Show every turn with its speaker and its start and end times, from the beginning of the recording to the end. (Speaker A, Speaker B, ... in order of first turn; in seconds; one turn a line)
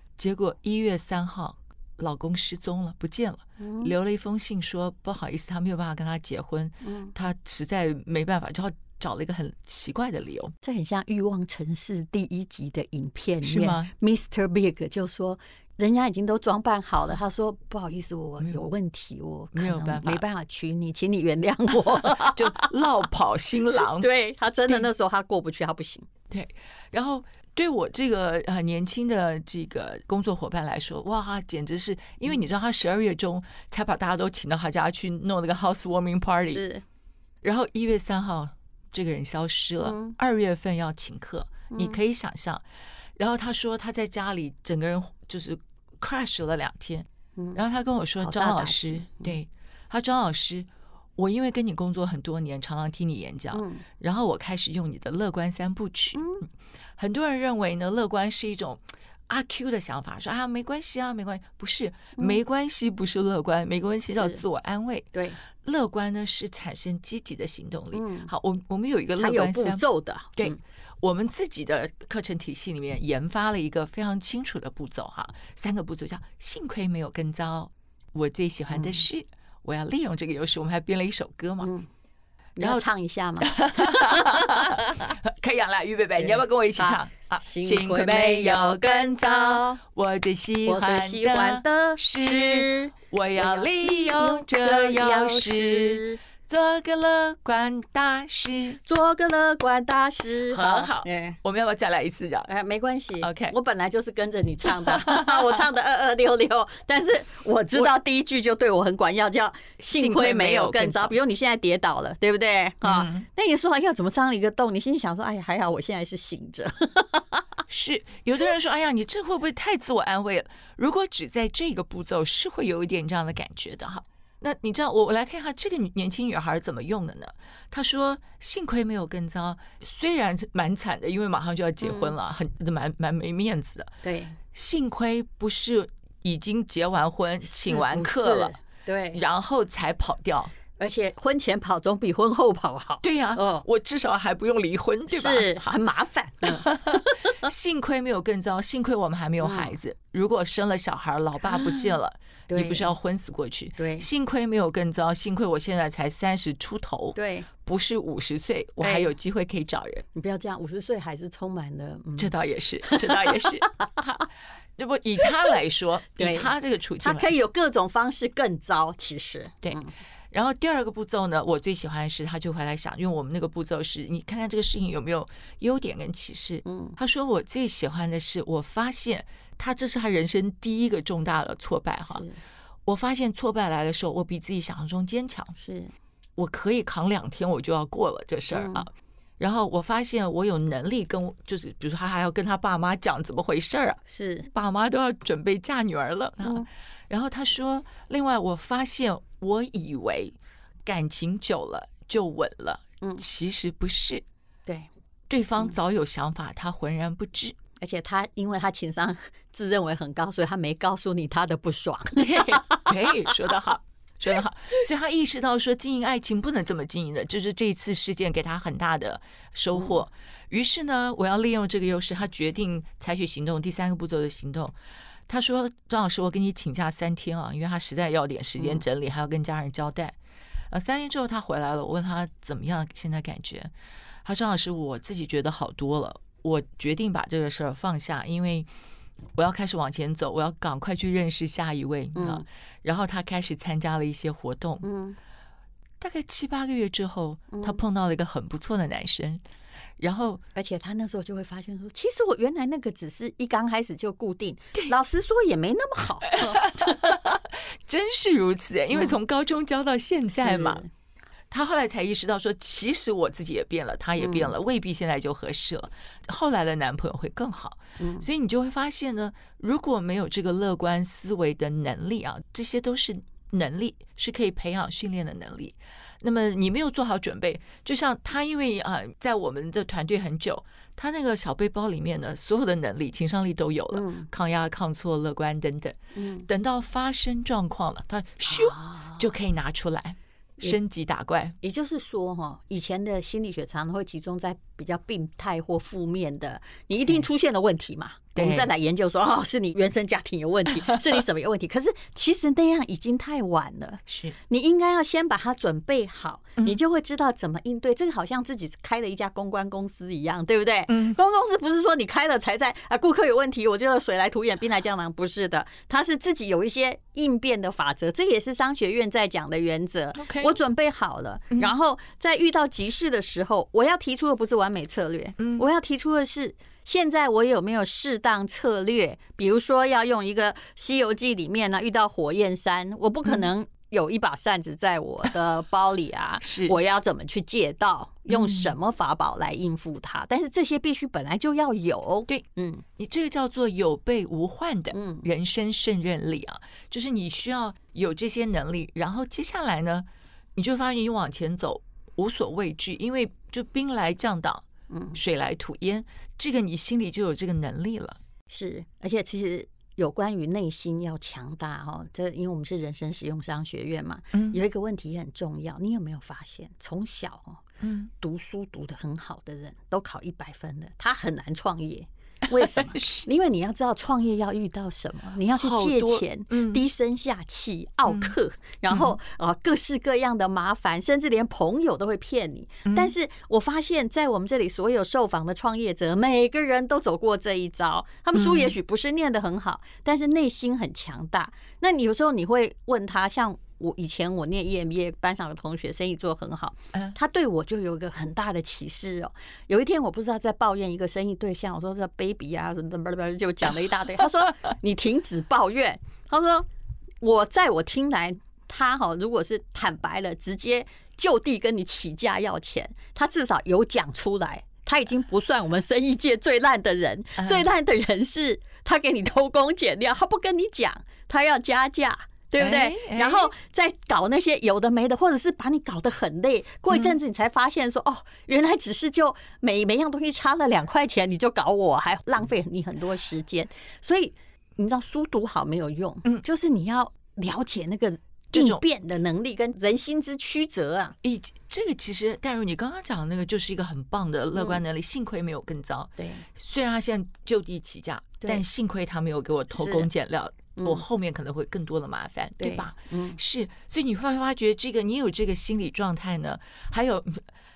Speaker A: 0.2-10.5
Speaker B: 3.6-3.9
Speaker B: 6.8-7.1
Speaker B: 10.6-22.7
Speaker A: 13.4-13.9
Speaker A: 19.5-20.2
Speaker A: 21.7-24.1
Speaker B: 23.9-26.1
Speaker A: 26.3-36.6
Speaker B: 36.4-36.8
Speaker A: 37.4-42.6
Speaker B: 39.8-40.1
Speaker B: 41.7-42.0
Speaker A: 43.2-56.4
Speaker B: 48.2-49.3
Speaker B: 53.5-53.8
Speaker B: 56.1-56.4
Speaker A: 57.0-69.8
Speaker B: 64.1-64.4
Speaker B: 65.1-65.4
Speaker B: 67.9-68.3
Speaker B: 69.2-70.6
Speaker A: 70.4-81.7
Speaker B: 78.7-79.0
Speaker B: 81.6-81.9
Speaker B: 82.6-85.1
Speaker A: 83.4-98.8
Speaker B: 86.2-89.8
Speaker B: 90.7-96.2
Speaker B: 98.8-101.4
Speaker A: 100.5-102.5
Speaker B: 102.5-117.4
Speaker A: 103.2-103.5
Speaker A: 104.7-105.5
Speaker A: 109.8-111.2
Speaker A: 112.8-113.2
Speaker A: 117.7-133.9
Speaker B: 131.8-132.1
Speaker B: 134.0-134.4
Speaker A: 134.5-138.6
Speaker B: 137.5-139.2
Speaker A: 139.1-140.5
Speaker B: 140.8-143.6
Speaker A: 143.0-145.7
Speaker B: 145.1-147.5
Speaker A: 146.4-160.0
Speaker B: 149.4-149.7
Speaker B: 151.4-152.0
Speaker B: 152.5-152.9
Speaker B: 153.8-154.1
Speaker B: 157.1-157.5
Speaker B: 158.8-159.1
Speaker B: 160.1-162.3
Speaker A: 162.2-164.2
Speaker B: 162.9-163.9
Speaker A: 164.8-167.3
Speaker B: 166.2-166.5
Speaker B: 167.0-169.9
Speaker A: 169.6-182.2
Speaker B: 176.6-177.0
Speaker B: 182.1-182.4
Speaker A: 182.8-185.5
Speaker B: 185.6-185.9
Speaker A: 186.4-194.0
Speaker B: 188.5-188.9
Speaker B: 194.1-194.5
Speaker A: 194.5-200.3
Speaker A: 200.8-204.2
Speaker A: 205.3-207.6
Speaker B: 207.8-212.9
Speaker A: 212.2-224.7
Speaker A: 225.3-230.1
Speaker A: 230.7-233.7
Speaker A: 234.2-238.7
Speaker A: 239.3-244.8
Speaker B: 242.1-242.4
Speaker B: 244.8-245.2
Speaker A: 246.0-249.4
Speaker B: 247.5-247.8
Speaker A: 250.0-250.4
Speaker B: 250.5-257.1
Speaker A: 256.3-260.8
Speaker B: 260.4-260.9
Speaker A: 261.5-291.6
Speaker B: 264.2-264.5
Speaker B: 268.0-268.2
Speaker B: 283.9-284.3
Speaker B: 286.1-286.5
Speaker B: 288.5-289.2
Speaker B: 291.6-342.8
Speaker A: 298.3-298.7
Speaker A: 304.1-304.4
Speaker A: 310.9-311.2
Speaker A: 320.1-320.6
Speaker A: 325.4-325.6
Speaker A: 336.4-336.8
Speaker A: 338.3-338.7
Speaker A: 343.0-350.0
Speaker B: 344.9-345.2
Speaker A: 350.6-354.6
Speaker B: 354.9-355.2
Speaker A: 355.1-358.2
Speaker B: 358.5-367.6
Speaker A: 364.3-364.6
Speaker A: 367.8-368.1
Speaker B: 368.2-406.6
Speaker A: 372.9-373.3
Speaker A: 375.5-376.8
Speaker A: 378.1-378.3
Speaker A: 378.9-379.1
Speaker A: 382.9-383.1
Speaker A: 388.3-388.7
Speaker B: 407.2-441.1
Speaker A: 417.4-417.6
Speaker A: 422.6-423.5
Speaker A: 426.9-427.1
Speaker A: 438.5-438.8
Speaker A: 441.2-457.4
Speaker B: 444.6-444.8
Speaker B: 446.2-446.4
Speaker B: 449.7-450.1
Speaker B: 452.6-453.4